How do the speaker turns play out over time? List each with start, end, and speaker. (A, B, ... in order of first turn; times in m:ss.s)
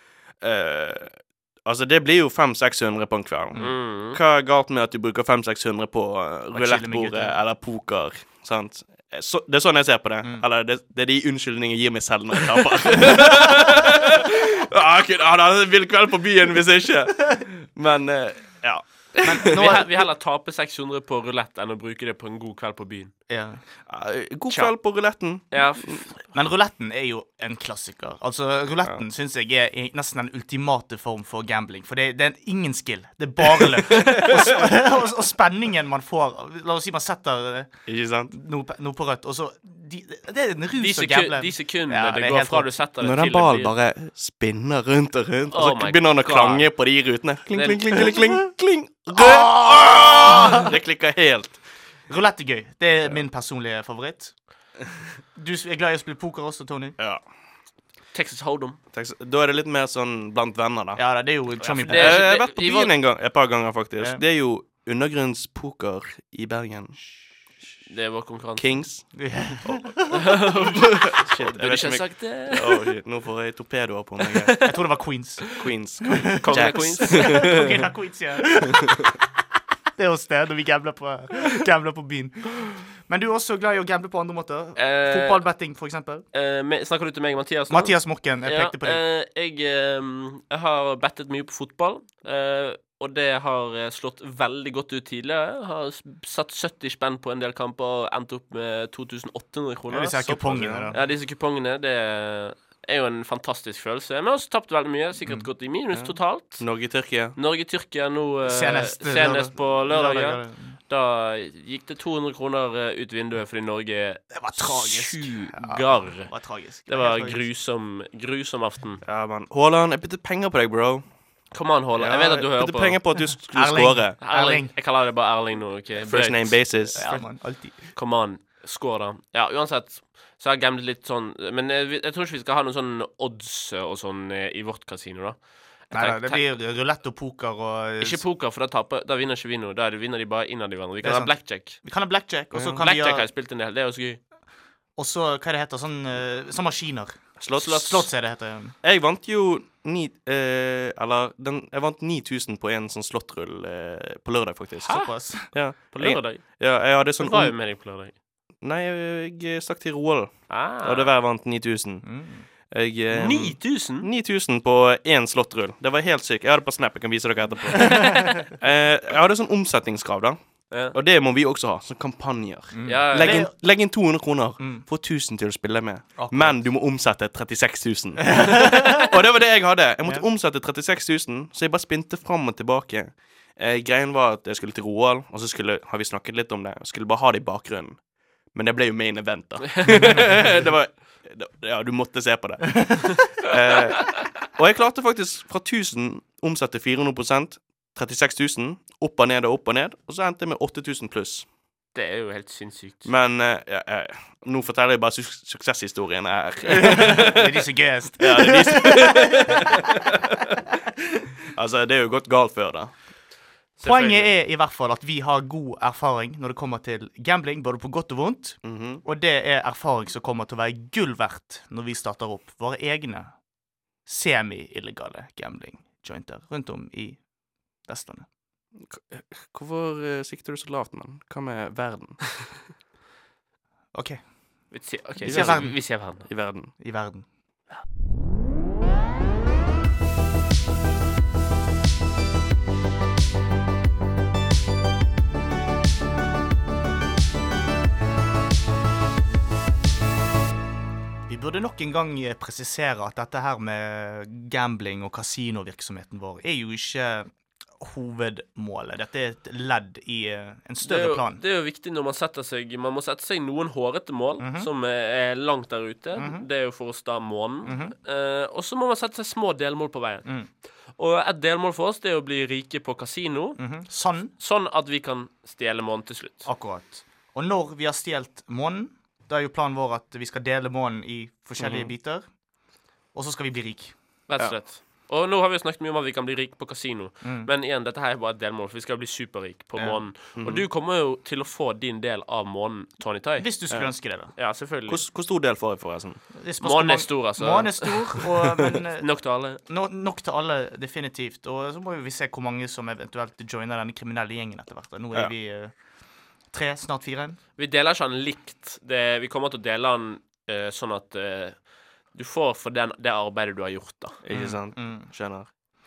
0:00.4-0:19.8 A
0:03.6-0:04.2 B
0:06.5-0:07.4 C
0:19.2-0:23.1 B
0:19.2-0:20.1 C
0:23.3-0:23.6 C
0:23.9-0:26.1 A
0:25.5-0:26.1 B
0:26.3-0:37.7 C
0:34.0-0:34.4 A
0:37.9-0:38.3 A
0:38.3-0:42.7 C
0:40.8-0:43.7 B
0:43.0-0:51.6 A
0:45.5-0:46.7 B
0:47.5-0:47.8 B
0:47.9-0:48.4 C
0:49.1-0:50.8 C
0:52.1-0:54.4 C
0:55.4-0:57.0 C
0:58.1-0:58.8 B
0:58.9-1:01.0 A
1:01.0-1:02.2 C
1:01.6-1:02.9 B
1:01.9-1:07.0 A
1:07.9-1:08.8 B
1:08.6-1:14.7 A
1:09.1-1:10.3 C
1:10.1-1:12.9 B
1:14.3-1:14.7 B
1:14.6-1:19.3 C
1:15.5-1:17.8 A
1:16.4-1:17.7 B
1:20.0-1:26.2 C
1:24.8-1:25.4 B
1:26.3-1:40.3 B
1:27.7-1:29.0 C
1:39.9-1:41.0 C
1:40.2-1:40.9 A
1:40.9-1:46.7 B
1:45.9-1:47.4 A
1:47.4-1:56.3 B
1:48.4-1:50.8 C
1:54.3-1:57.5 C
1:56.9-1:59.0 B
1:59.0-2:01.1 A
2:01.5-2:03.0 B
2:02.0-2:04.2 A
2:03.5-2:04.7 C
2:04.2-2:07.2 B
2:06.0-2:07.0 A
2:06.9-2:07.8 C
2:07.9-2:16.5 B
2:15.9-2:18.2 C
2:18.0-2:21.8 B
2:21.0-2:23.3 C
2:22.5-2:22.9 A
2:22.8-2:24.2 B
2:25.0-2:28.8 C
2:27.4-2:28.1 A
2:28.8-2:37.7 A
2:34.8-2:35.5 C
2:34.9-2:36.6 B
2:37.2-2:38.1 B
2:38.6-2:42.2 A
2:40.5-2:41.1 B
2:42.0-2:42.4 C
2:42.7-2:50.4 A
2:43.1-2:44.1 B
2:47.8-2:48.3 C
2:47.9-2:48.4 B
2:50.9-3:08.0 A
2:52.7-2:53.5 C
2:52.8-2:53.5 B
2:54.6-2:54.8 C
2:56.2-2:56.6 C
2:58.3-2:59.1 C
3:08.5-3:21.5 A
3:09.8-3:10.6 B
3:09.9-3:10.2 C
3:21.9-3:23.1 B
3:23.0-3:27.7 A
3:26.7-3:30.2 C
3:28.2-3:30.3 A
3:31.5-3:32.9 A
3:33.8-3:34.3 B
3:33.8-3:43.4 C
3:38.6-3:39.0 A
3:44.1-3:47.3 C
3:47.9-3:48.3 C
3:48.8-3:52.4 A
3:53.9-3:55.8 C
3:54.7-3:56.3 B
3:55.2-3:56.7 A
3:56.8-3:57.2 C
4:11.3-4:21.4 C
4:20.8-4:30.3 B
4:24.4-4:24.7 C
4:26.2-4:26.5 C
4:27.6-4:27.9 C
4:30.9-4:33.6 B
4:33.6-4:34.3 C
4:34.3-4:36.5 B
4:36.4-4:42.3 C
4:41.6-4:41.9 A
4:43.1-4:43.9 C
4:44.3-4:53.5 B
4:47.2-4:47.5 C
4:49.8-4:50.0 C
4:50.4-4:50.6 A
4:53.4-4:54.3 C
4:54.4-4:55.0 B
4:54.9-4:56.2 A
4:56.4-5:05.7 C
4:56.6-4:58.2 B
4:59.0-4:59.6 B
5:06.5-5:07.4 C
5:07.6-5:14.2 B
5:14.2-5:15.5 A
5:14.3-5:15.1 C